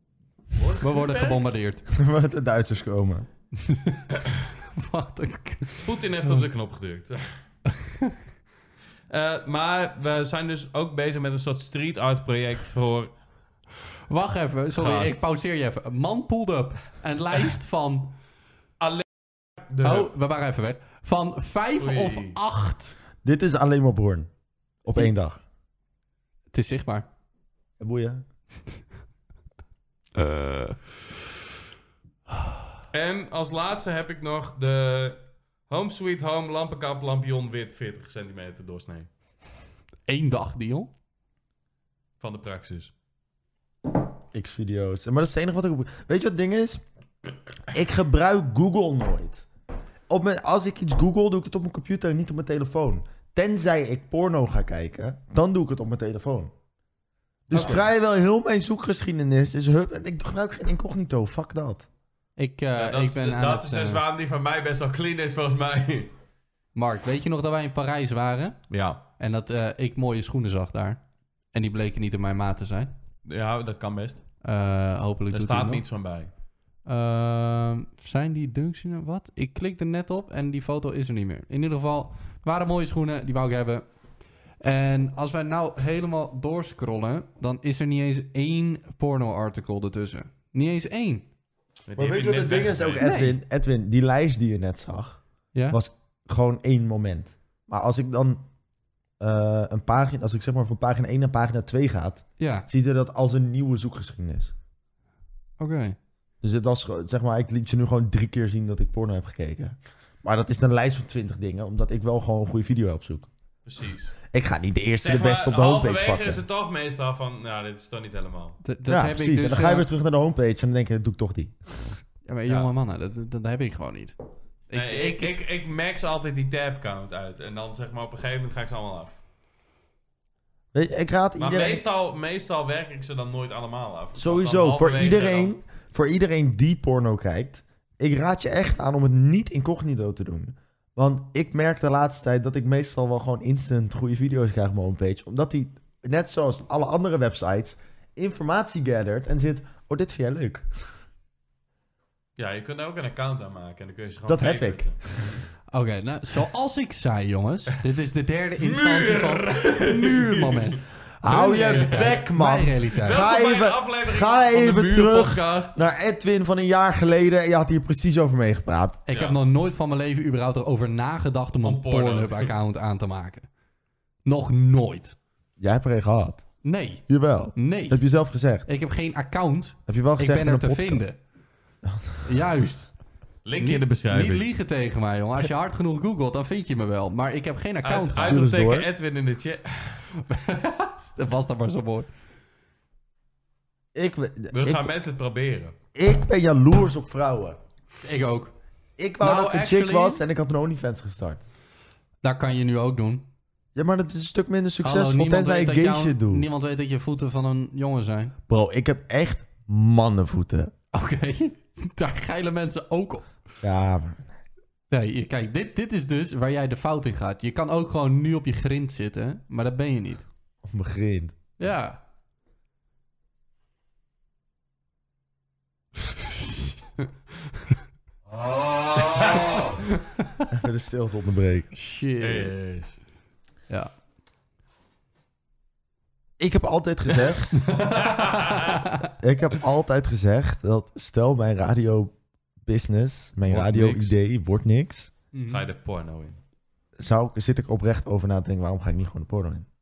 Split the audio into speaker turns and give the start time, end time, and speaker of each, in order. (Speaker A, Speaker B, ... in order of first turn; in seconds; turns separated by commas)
Speaker A: 0.5-1.4, Speaker B: 0.8-1.9, Speaker C: 1.9-3.3, Speaker B: 3.6-6.4, Speaker A: 5.8-7.3, Speaker B: 7.8-8.1, Speaker A: 9.1-13.1, Speaker B: 14.1-18.1, Speaker A: 14.8-15.2, Speaker A: 18.8-19.1, Speaker A: 19.6-20.1, Speaker B: 19.8-23.0, Speaker A: 21.8-22.4, Speaker C: 23.2-24.3, Speaker C: 24.8-25.4, Speaker B: 26.5-27.1, Speaker C: 27.8-28.2, Speaker B: 30.2-30.9, Speaker A: 32.9-39.1, Speaker B: 40.1-40.9, Speaker A: 42.2-42.9, Speaker C: 44.3-46.8, Speaker C: 47.7-49.5, Speaker C: 50.1-56.5, Speaker C: 57.5-61.9, Speaker B: 57.5-57.9, Speaker B: 62.4-64.0, Speaker A: 62.8-66.1, Speaker B: 66.8-68.6, Speaker A: 68.7-69.0, Speaker B: 69.2-71.0, Speaker B: 71.5-72.9, Speaker A: 73.2-74.2, Speaker B: 74.4-75.8, Speaker A: 75.3-76.3, Speaker B: 76.8-83.8, Speaker B: 84.6-91.2, Speaker A: 91.9-93.0, Speaker C: 92.0-98.4, Speaker B: 93.0-93.4, Speaker B: 95.5-95.8, Speaker C: 99.2-104.5, Speaker B: 102.4-102.7, Speaker B: 105.6-106.0, Speaker C: 106.4-113.3, Speaker A: 113.7-114.1, Speaker C: 114.3-116.4, Speaker A: 115.0-118.6, Speaker B: 118.6-119.9, Speaker C: 118.9-121.6, Speaker B: 122.3-124.2, Speaker B: 124.7-125.3, Speaker A: 124.7-129.2, Speaker C: 130.7-131.8, Speaker A: 131.4-135.5, Speaker C: 134.2-150.9, Speaker A: 152.4-155.0, Speaker C: 154.3-154.9, Speaker B: 155.7-163.2, Speaker A: 158.6-162.3, Speaker C: 161.2-169.0, Speaker A: 163.0-165.8, Speaker B: 169.1-173.5, Speaker A: 169.1-169.4, Speaker A: 171.6-172.5, Speaker B: 174.3-175.2, Speaker C: 175.6-176.4, Speaker B: 176.6-177.1, Speaker C: 177.1-178.7, Speaker B: 177.6-178.0, Speaker B: 178.7-181.2, Speaker C: 179.9-181.0, Speaker C: 181.8-182.2, Speaker B: 182.2-182.9, Speaker A: 183.4-184.5, Speaker B: 183.6-188.4, Speaker A: 187.8-190.0, Speaker C: 188.2-188.9, Speaker B: 190.2-192.1, Speaker C: 193.9-194.9, Speaker A: 194.5-195.7, Speaker C: 195.9-197.6, Speaker B: 198.0-198.5, Speaker C: 199.0-201.4, Speaker B: 199.2-200.2, Speaker B: 202.2-203.3, Speaker C: 203.8-206.5, Speaker B: 204.8-208.3, Speaker C: 208.5-210.7, Speaker B: 210.9-213.3, Speaker C: 213.6-214.3, Speaker B: 214.9-220.3, Speaker C: 220.6-221.4, Speaker B: 221.6-222.0, Speaker B: 228.8-230.5, Speaker A: 229.0-229.7, Speaker C: 230.5-231.7, Speaker B: 231.8-232.5, Speaker A: 232.2-233.0, Speaker C: 236.4-237.7, Speaker B: 237.7-239.1, Speaker A: 237.9-238.8, Speaker C: 239.2-245.1, Speaker A: 243.5-244.1, Speaker B: 245.3-245.6, Speaker A: 245.5-246.4, Speaker C: 247.0-249.7